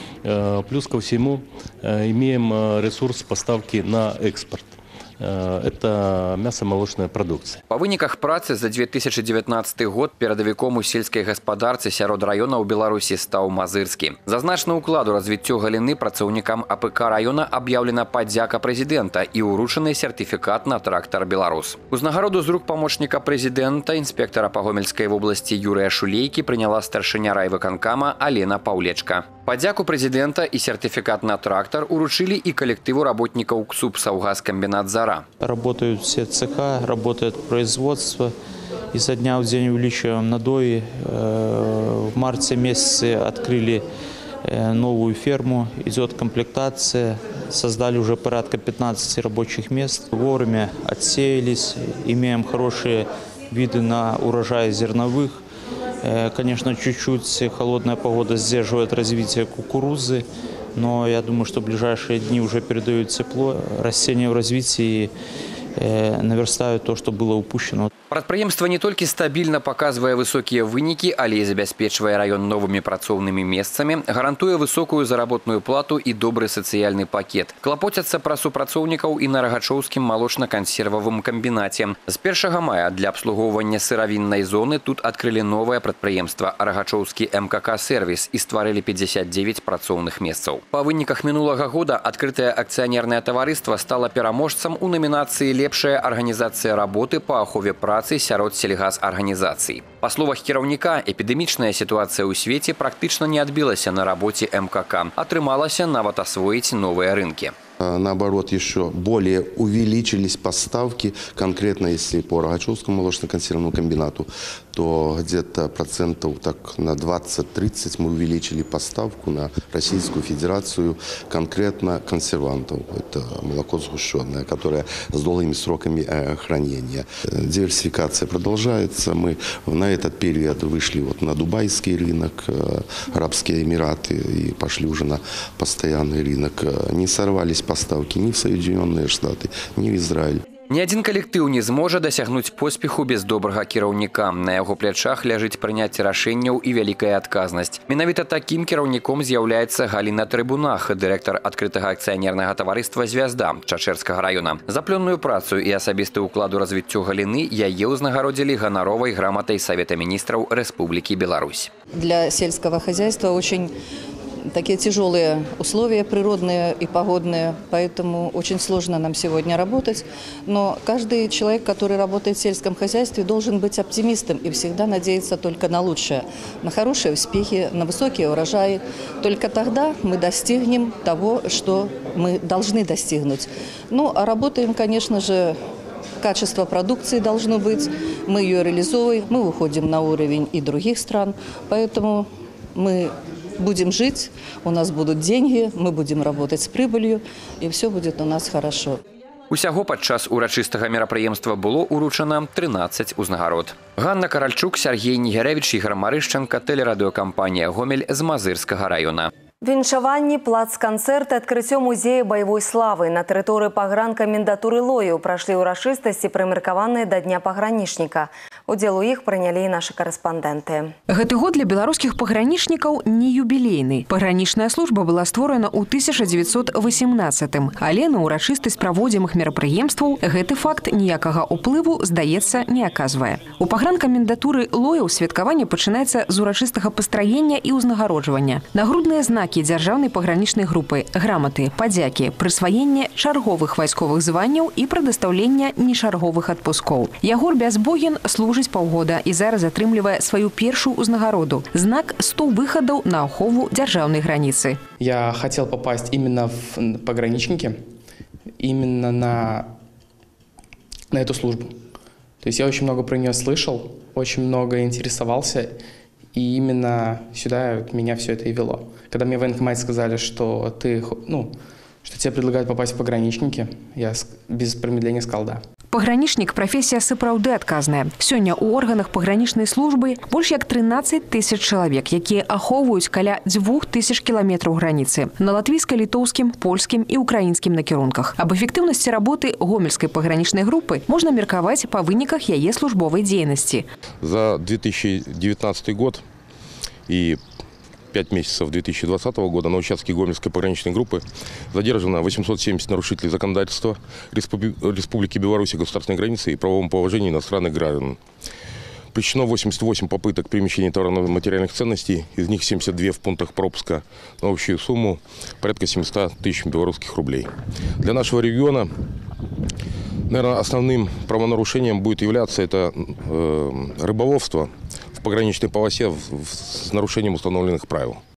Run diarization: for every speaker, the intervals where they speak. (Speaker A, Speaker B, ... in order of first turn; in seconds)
Speaker A: 0.2-7.6
Speaker B: 7.7-35.2, 68.1-107.5, 140.7-161.7, 199.5-209.3
Speaker C: 35.4-38.3, 38.9-43.8, 44.4-55.4, 56.0-65.1, 65.8-67.9
Speaker D: 107.8-140.4
Speaker E: 161.9-163.7, 164.5-185.6, 186.2-199.0
Speaker F: 209.6-220.9
Speaker G: 221.1-254.8, 275.9-293.9
Speaker H: 255.0-257.7, 258.6-259.7, 261.1-261.7, 262.4-265.7, 266.3-271.5, 272.0-275.6
Speaker I: 294.2-296.2, 297.1-297.4, 298.1-308.2, 309.1-317.5, 318.0-318.9, 320.3-328.2